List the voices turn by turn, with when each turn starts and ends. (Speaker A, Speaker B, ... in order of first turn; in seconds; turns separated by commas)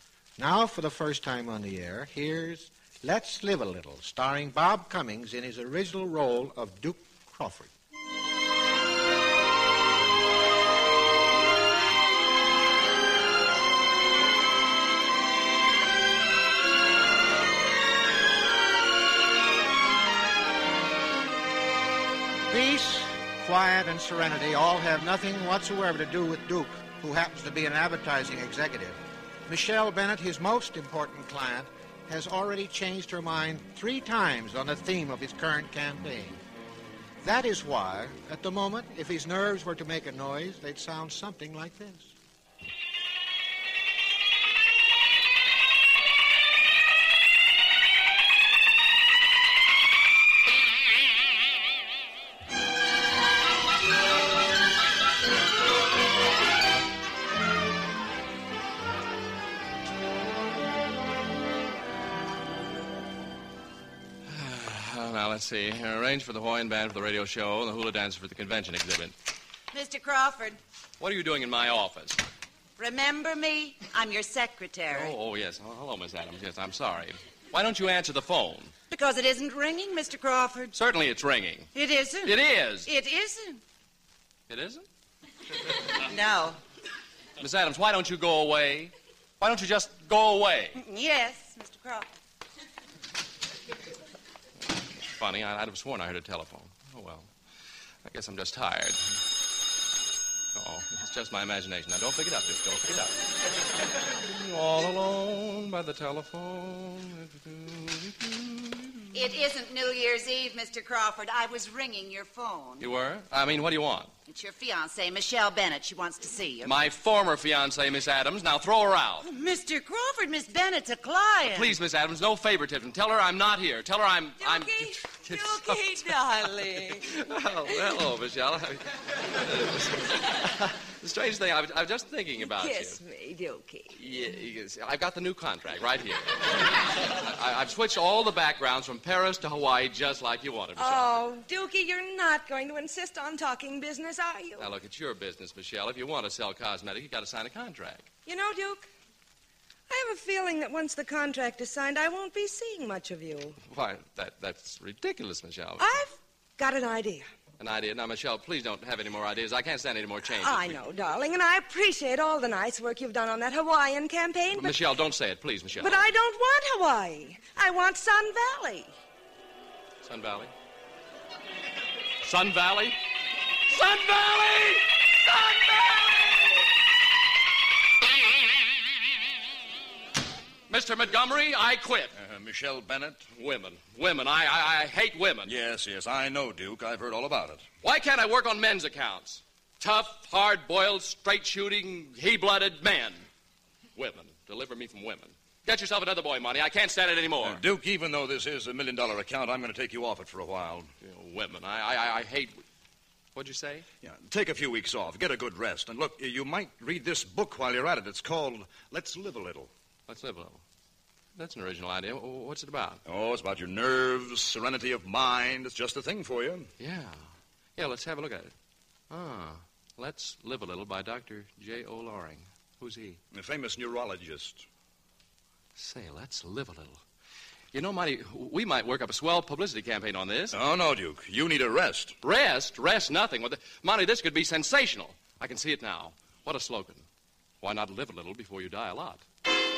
Speaker A: 0.4-7.7, Speaker A: 22.5-36.4, Speaker A: 37.2-42.1, Speaker B: 64.3-69.1, Speaker C: 69.7-70.6, Speaker B: 71.0-72.2, Speaker C: 72.8-75.1, Speaker B: 74.9-78.7, Speaker C: 78.9-80.7, Speaker B: 80.7-81.7, Speaker C: 81.7-83.6, Speaker B: 82.2-82.9, Speaker B: 84.5-84.8, Speaker C: 86.0-86.6, Speaker B: 87.4-90.8, Speaker C: 90.7-92.1, Speaker B: 95.1-97.3, Speaker B: 98.0-99.2, Speaker B: 100.5-103.1, Speaker B: 104.2-109.1, Speaker C: 109.1-112.8, Speaker B: 112.8-114.1, Speaker C: 114.3-116.7, Speaker B: 116.6-119.2, Speaker C: 119.2-121.8, Speaker B: 121.5-126.1, Speaker D: 124.4-127.1, Speaker B: 126.9-133.0, Speaker D: 132.4-134.0, Speaker B: 133.9-141.2, Speaker D: 140.8-144.7, Speaker B: 144.6-148.1, Speaker D: 148.2-148.8, Speaker D: 149.9-153.6, Speaker B: 153.6-155.9, Speaker D: 155.8-157.2, Speaker B: 157.6-160.8, Speaker D: 160.4-164.8, Speaker B: 164.5-166.0, Speaker D: 165.8-168.9, Speaker B: 170.0-170.5, Speaker B: 172.2-173.0, Speaker B: 173.7-176.7, Speaker B: 180.7-182.1, Speaker E: 182.1-183.2, Speaker B: 183.3-185.5, Speaker E: 185.4-187.6, Speaker B: 187.8-193.2, Speaker B: 193.9-197.6, Speaker E: 197.4-200.9, Speaker B: 201.0-202.6, Speaker B: 203.3-203.8, Speaker E: 204.0-209.7, Speaker B: 210.1-210.6, Speaker B: 211.3-213.0, Speaker E: 213.0-216.7, Speaker B: 216.8-218.5, Speaker B: 219.1-223.2, Speaker E: 223.3-224.6, Speaker B: 225.8-227.0, Speaker B: 227.7-230.6, Speaker E: 230.5-232.2, Speaker B: 232.2-237.0, Speaker B: 237.6-239.2